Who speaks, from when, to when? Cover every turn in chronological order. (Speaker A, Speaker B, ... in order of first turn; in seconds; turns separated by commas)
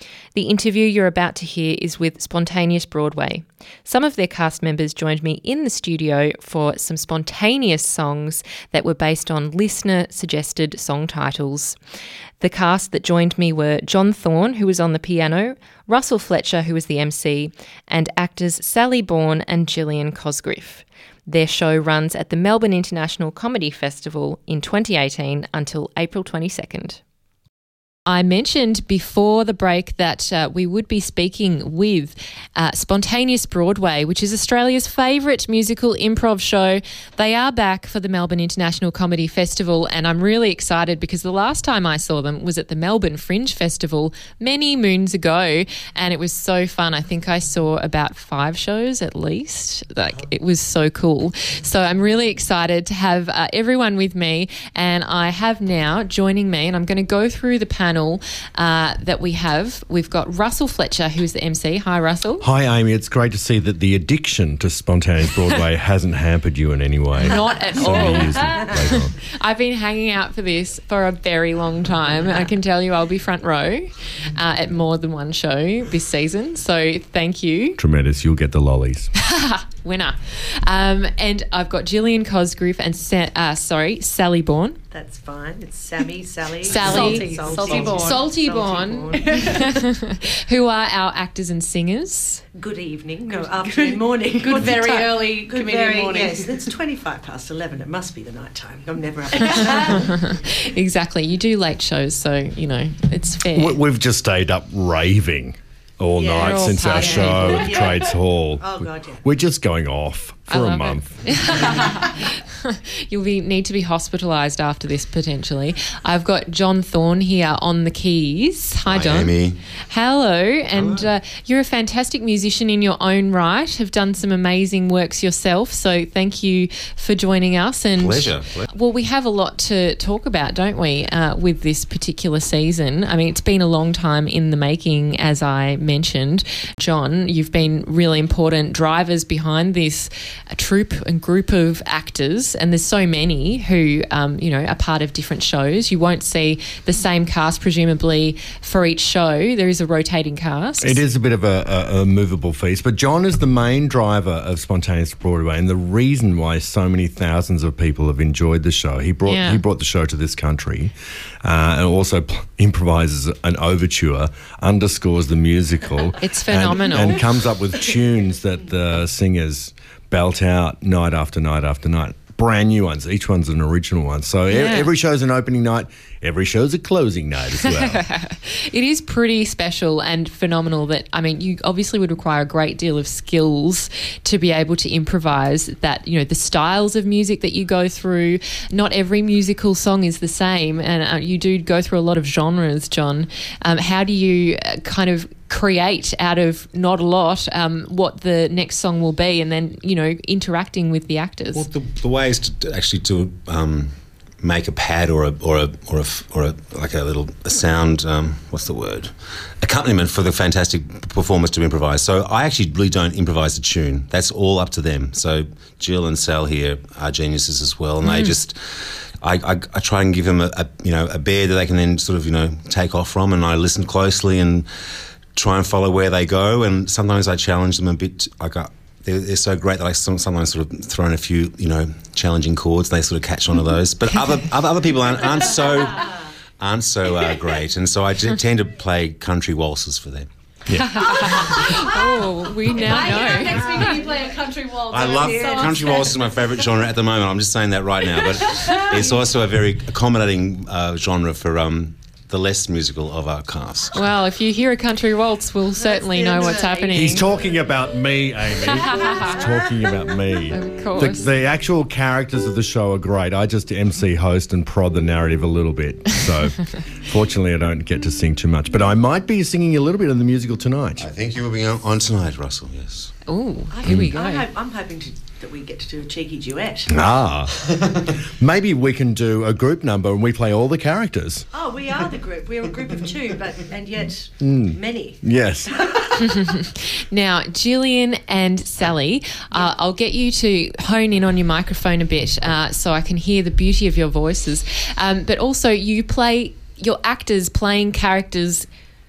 Speaker A: 0.3-11.8, Speaker A: 12.4-27.0, Speaker A: 28.1-62.5, Speaker B: 62.4-69.1, Speaker A: 67.2-77.8, Speaker C: 67.9-68.2, Speaker D: 68.2-68.7, Speaker B: 77.8-79.1, Speaker A: 79.2-84.8, Speaker C: 84.9-89.6, Speaker A: 86.6-92.4, Speaker D: 86.7-88.2, Speaker D: 89.2-89.7, Speaker C: 92.5-100.3, Speaker D: 93.3-96.7, Speaker A: 99.9-103.8, Speaker B: 103.5-111.3, Speaker C: 106.2-109.2, Speaker A: 106.4-107.7, Speaker D: 107.4-108.0, Speaker A: 110.5-119.3, Speaker E: 118.9-119.6, Speaker A: 119.9-151.0, Speaker E: 120.7-121.1, Speaker E: 128.0-128.7, Speaker B: 150.8-178.0, Speaker A: 159.3-159.6, Speaker A: 166.2-167.3, Speaker A: 174.5-174.9, Speaker A: 177.6-201.7, Speaker E: 201.5-224.7, Speaker A: 218.0-218.3, Speaker E: 225.3-240.3, Speaker B: 240.7-241.3, Speaker A: 240.8-243.8, Speaker D: 242.8-246.2, Speaker C: 243.8-244.0, Speaker E: 244.9-254.1, Speaker C: 245.1-246.1, Speaker D: 248.6-249.0, Speaker C: 248.7-249.0, Speaker A: 253.9-257.3, Speaker C: 256.1-257.2, Speaker D: 256.2-257.2, Speaker B: 256.9-271.1, Speaker A: 258.8-259.4, Speaker C: 258.9-259.7, Speaker A: 260.5-261.3, Speaker E: 271.0-273.1, Speaker A: 273.3-274.4, Speaker C: 273.7-276.9, Speaker B: 276.9-281.5, Speaker C: 281.5-286.5, Speaker B: 284.4-285.7, Speaker A: 286.2-298.7